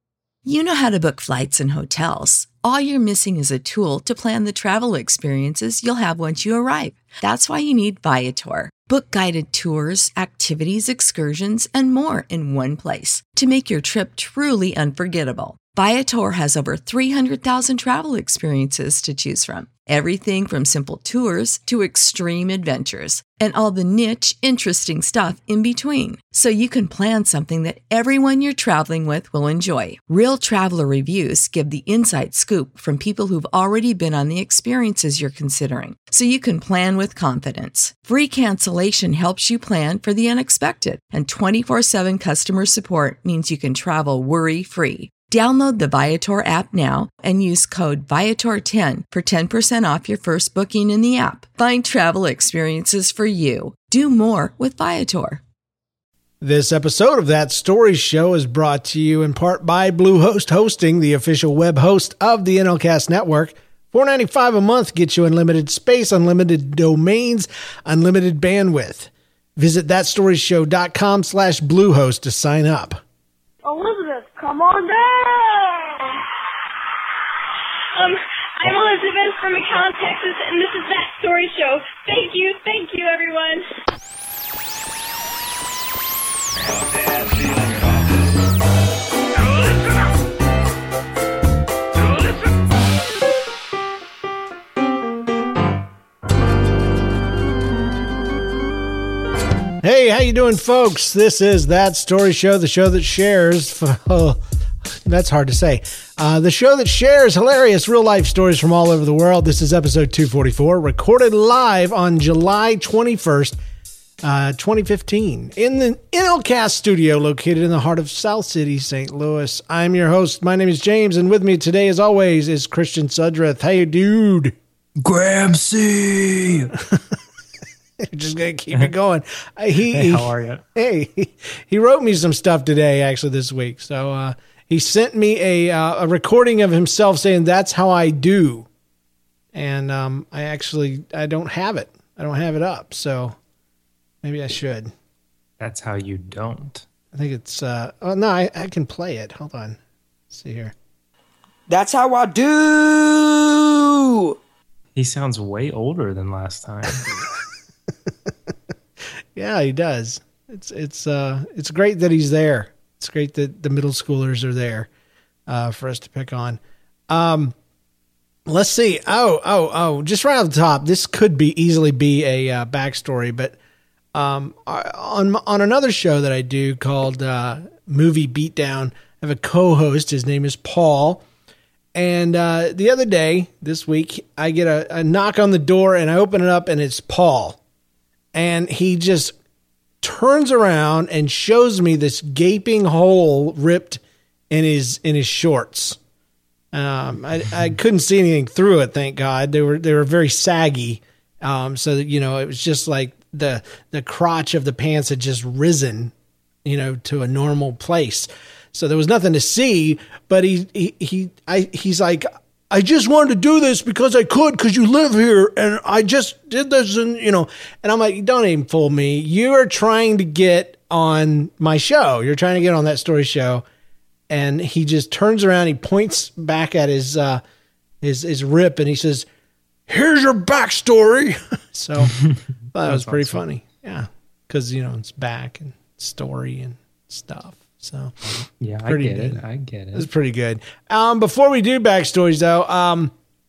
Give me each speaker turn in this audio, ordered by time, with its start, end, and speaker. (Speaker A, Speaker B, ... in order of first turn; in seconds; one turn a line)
Speaker A: 0.5-55.4
Speaker B: 56.4-73.0
Speaker C: 73.6-76.1
Speaker D: 78.0-83.6
Speaker B: 99.8-104.4
Speaker B: 105.0-113.6
Speaker B: 114.2-124.5
Speaker E: 125.0-126.7
Speaker B: 128.0-138.7
Speaker E: 129.9-130.6
Speaker B: 139.5-143.4
Speaker B: 144.2-144.9
Speaker E: 145.6-146.8
Speaker B: 147.1-149.8
Speaker B: 150.3-150.7
Speaker F: 151.7-154.4
Speaker E: 154.9-157.1
Speaker B: 159.3-164.9
Speaker B: 165.5-166.6
Speaker B: 167.1-167.6
Speaker B: 168.5-173.6
Speaker B: 174.2-181.2
Speaker B: 181.9-187.6
Speaker B: 188.3-189.3
Speaker B: 190.0-196.0
Speaker B: 196.7-206.1
Speaker B: 206.7-223.6
Speaker B: 224.3-227.4
Speaker B: 228.0-229.3
Speaker B: 229.9-238.2
Speaker E: 232.8-233.4
Speaker E: 238.3-240.1
Speaker B: 238.9-239.4
Speaker B: 239.9-243.1